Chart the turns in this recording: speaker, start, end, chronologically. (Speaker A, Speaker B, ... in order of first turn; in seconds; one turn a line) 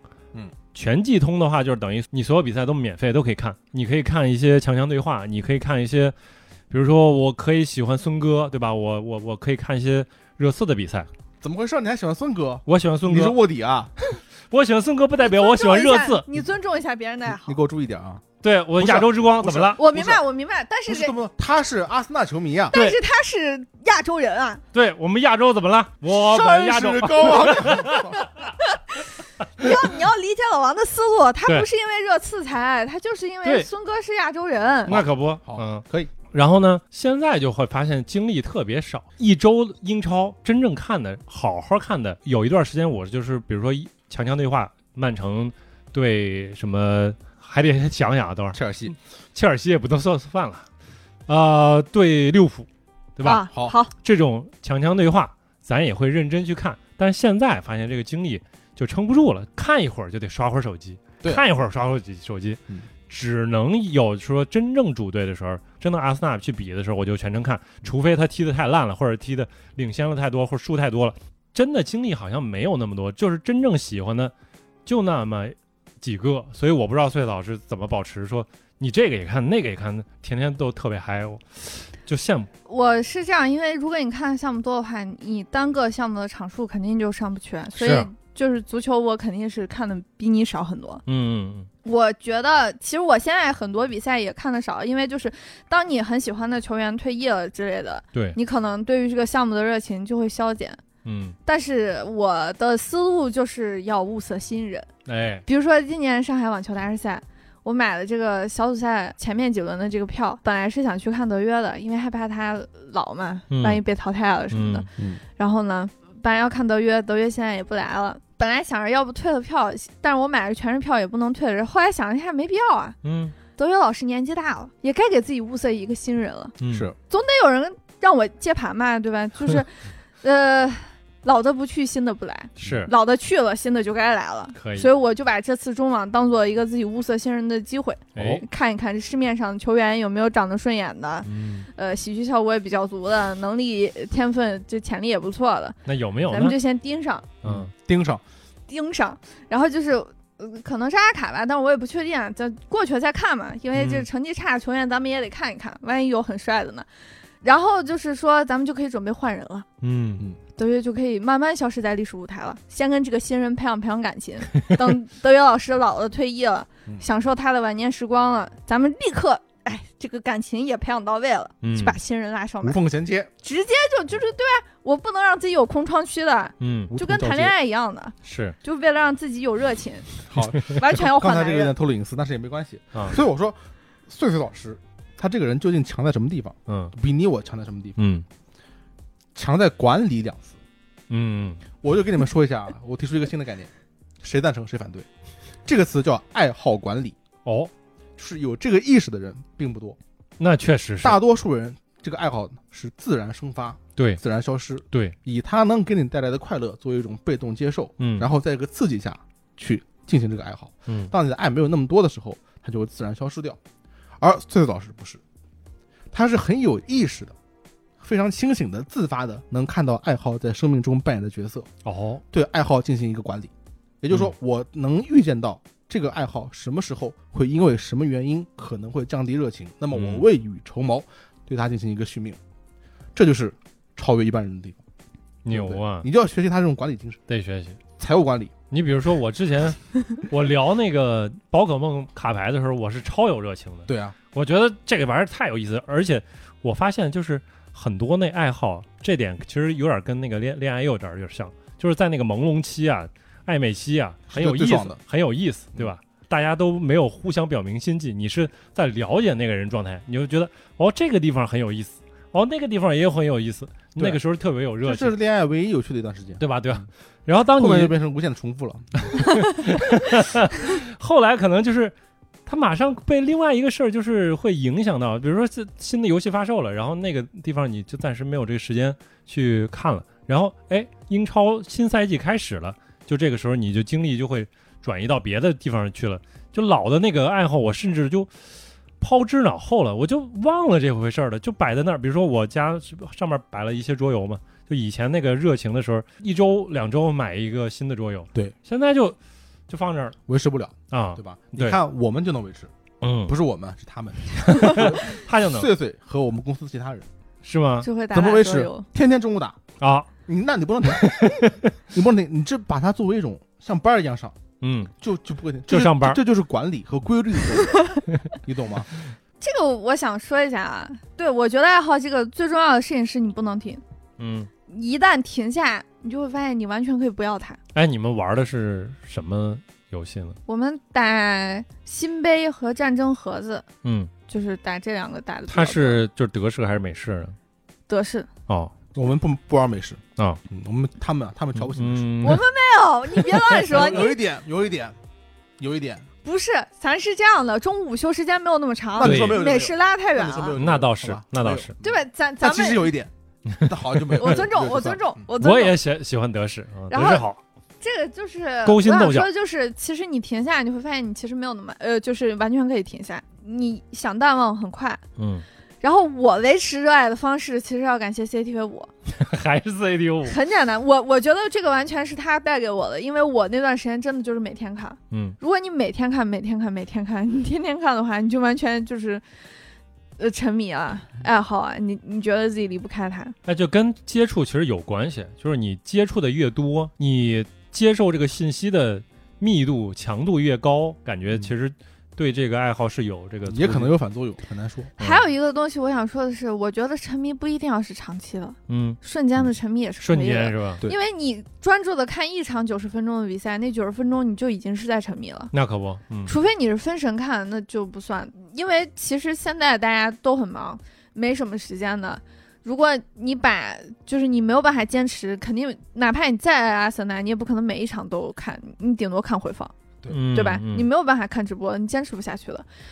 Speaker A: 0.7-6.2
Speaker A: 6.7-11.1
Speaker B: 11.4-13.9
Speaker A: 12.7-13.4
Speaker A: 14.5-16.2
Speaker C: 15.2-17.6
Speaker B: 17.3-18.2
Speaker A: 18.4-19.8
Speaker B: 18.8-20.2
Speaker C: 19.8-21.1
Speaker B: 20.9-22.8
Speaker C: 22.7-24.6
Speaker A: 22.7-23.0
Speaker A: 24.7-28.1
Speaker B: 26.1-28.3
Speaker C: 28.2-35.0
Speaker A: 34.9-50.7
Speaker B: 34.9-36.1
Speaker B: 48.5-48.9
Speaker A: 51.3-74.3
Speaker C: 53.2-53.9
Speaker A: 74.9-82.5
Speaker C: 82.7-91.0
Speaker A: 87.8-88.1
Speaker A: 91.1-91.7
Speaker C: 91.8-100.8
Speaker A: 101.0-101.4
Speaker C: 101.5-104.9
Speaker A: 105.1-105.4
Speaker C: 105.5-114.9
Speaker A: 113.5-113.8
Speaker A: 114.5-114.9
Speaker C: 115.4-123.0
Speaker A: 123.0-123.4
Speaker C: 123.5-126.5
Speaker A: 126.6-126.9
Speaker B: 126.7-127.0
Speaker C: 127.1-147.3
Speaker A: 132.6-132.9
Speaker A: 134.6-134.9
Speaker A: 138.2-138.4
Speaker A: 141.2-141.7
Speaker A: 145.9-146.6
Speaker A: 147.4-147.7
Speaker B: 147.4-148.2
Speaker C: 148.7-156.9
Speaker A: 153.7-154.1
Speaker C: 157.4-159.7
Speaker A: 159.8-160.2
Speaker C: 160.6-172.8
Speaker A: 171.6-172.0
Speaker B: 172.6-173.3
Speaker C: 173.4-181.7
Speaker A: 176.6-176.9
Speaker B: 176.9-177.5
Speaker A: 178.2-178.6
Speaker B: 180.3-188.0
Speaker A: 186.7-186.9
Speaker A: 188.0-188.3
Speaker B: 189.3-190.6
Speaker A: 191.1-191.6
Speaker B: 191.8-193.7
Speaker B: 194.2-195.1
Speaker B: 195.7-197.2
Speaker A: 197.4-197.7
Speaker B: 198.2-200.0
Speaker A: 200.4-201.2
Speaker B: 201.0-213.6
Speaker A: 208.0-208.3
Speaker A: 210.9-211.1
Speaker B: 214.2-215.2
Speaker B: 216.1-217.3
Speaker B: 218.0-221.7
Speaker A: 221.8-222.2
Speaker B: 222.3-223.5
Speaker B: 224.0-232.4
Speaker A: 229.9-230.2
Speaker B: 233.2-234.8
Speaker A: 235.4-236.1
Speaker B: 235.5-237.2
Speaker A: 237.3-237.8
Speaker B: 238.0-238.5
Speaker A: 238.7-265.1
Speaker B: 243.9-244.2
Speaker B: 254.3-255.0
Speaker B: 264.8-266.4
Speaker A: 266.4-267.9
Speaker B: 267.6-269.2
Speaker A: 269.1-271.9
Speaker A: 272.5-288.3
Speaker A: 289.0-299.2
Speaker A: 299.7-300.2
Speaker B: 300.3-302.7
Speaker A: 300.9-301.8
Speaker A: 303.0-303.4
Speaker B: 303.3-307.1
Speaker A: 304.5-305.7
Speaker A: 307.4-307.9
Speaker C: 307.8-308.9
Speaker B: 308.1-309.6
Speaker A: 309.8-310.1
Speaker B: 310.3-314.4
Speaker A: 310.9-311.7
Speaker A: 314.6-314.9
Speaker B: 315.0-317.8
Speaker A: 315.7-316.2
Speaker B: 318.4-318.9
Speaker C: 319.4-323.8
Speaker A: 324.2-324.5
Speaker C: 324.7-327.6
Speaker A: 327.7-330.4
Speaker C: 330.5-333.7
Speaker A: 333.8-334.1
Speaker C: 334.3-336.0
Speaker A: 335.5-337.4
Speaker C: 337.9-338.3
Speaker B: 338.9-342.2
Speaker A: 341.7-342.4
Speaker C: 342.2-344.2
Speaker B: 343.6-345.0
Speaker B: 345.6-346.1
Speaker C: 346.2-350.6
Speaker B: 349.0-353.1
Speaker A: 349.0-349.5
Speaker A: 350.6-351.7
Speaker C: 351.8-352.9
Speaker A: 353.5-354.3
Speaker B: 353.6-355.2
Speaker C: 354.2-355.8
Speaker A: 355.4-357.4
Speaker C: 356.9-357.3
Speaker C: 357.8-365.0
Speaker A: 358.6-359.3
Speaker A: 365.2-365.4
Speaker C: 365.8-368.9
Speaker A: 369.2-370.4
Speaker C: 370.3-379.2
Speaker A: 375.1-375.4
Speaker C: 380.2-383.4
Speaker A: 383.5-393.9
Speaker B: 393.5-394.9
Speaker C: 395.0-405.5
Speaker A: 395.0-395.2
Speaker A: 398.7-399.0
Speaker A: 400.0-400.8
Speaker A: 405.5-406.3
Speaker C: 406.3-419.7
Speaker A: 420.1-420.9
Speaker C: 420.3-422.6